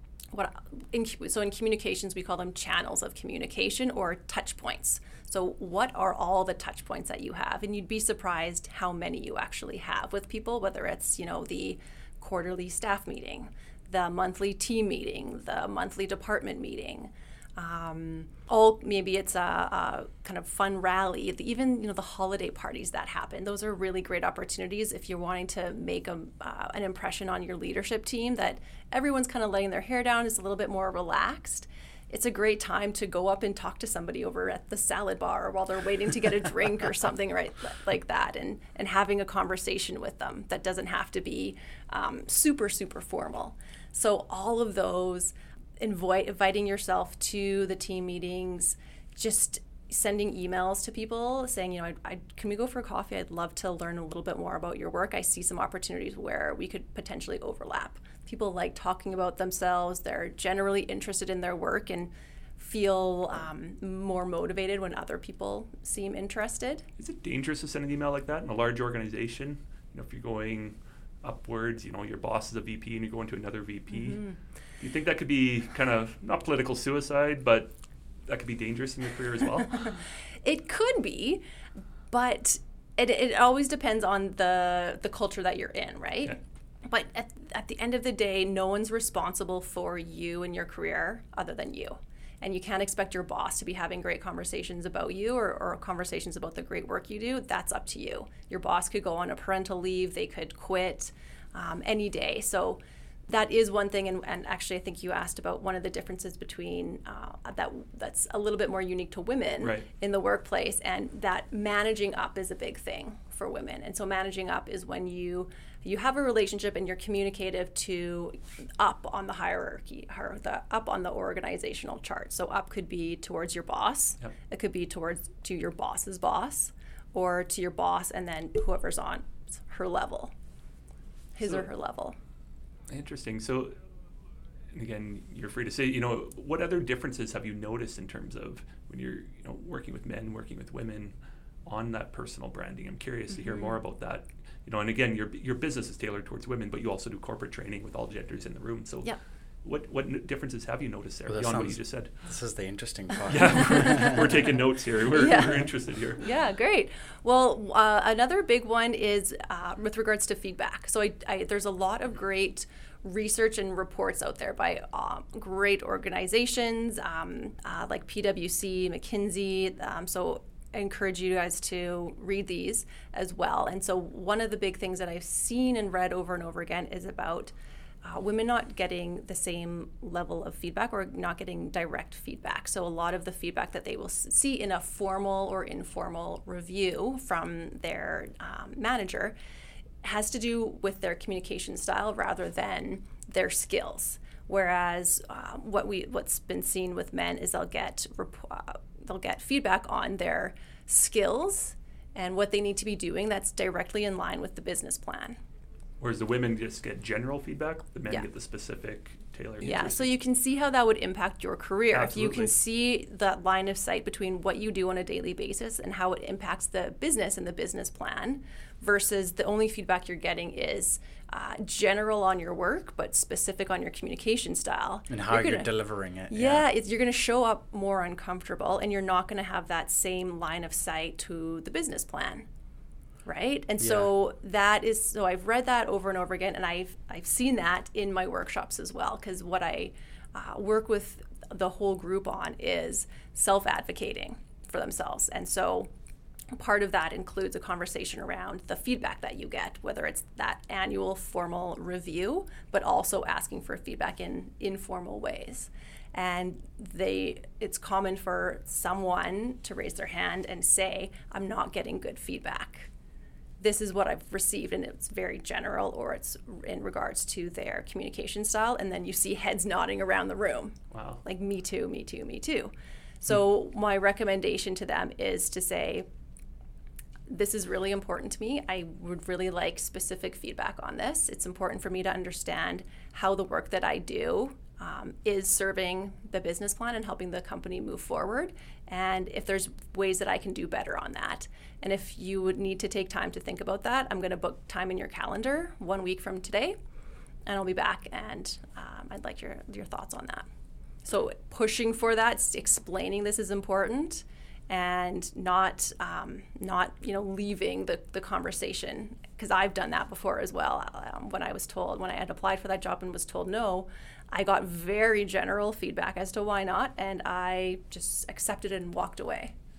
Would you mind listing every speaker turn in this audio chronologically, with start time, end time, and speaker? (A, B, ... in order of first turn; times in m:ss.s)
0:00.3-1:06.8 A
1:07.0-1:17.7 B
1:13.9-1:14.4 A
1:18.2-1:20.0 B
1:20.4-1:21.4 A
1:22.1-2:10.3 A
1:49.6-1:49.8 B
2:11.3-2:12.2 A
2:12.9-2:13.8 B
2:14.7-2:32.1 B
2:23.4-2:23.7 A
2:31.3-2:34.2 C
2:33.3-2:36.2 B
2:33.8-2:34.2 A
2:35.1-3:09.3 A
3:10.0-3:25.4 A
3:26.0-3:30.1 B
3:29.6-3:45.7 A
3:31.9-3:32.5 B
3:45.1-3:46.7 C
3:46.3-3:52.4 A
3:53.2-4:05.9 A
3:53.8-3:54.1 C
4:06.5-4:22.9 A
4:23.6-4:36.0 A
4:30.9-4:31.2 B
4:37.3-4:56.8 A
4:57.5-5:00.4 A
5:01.0-5:19.5 A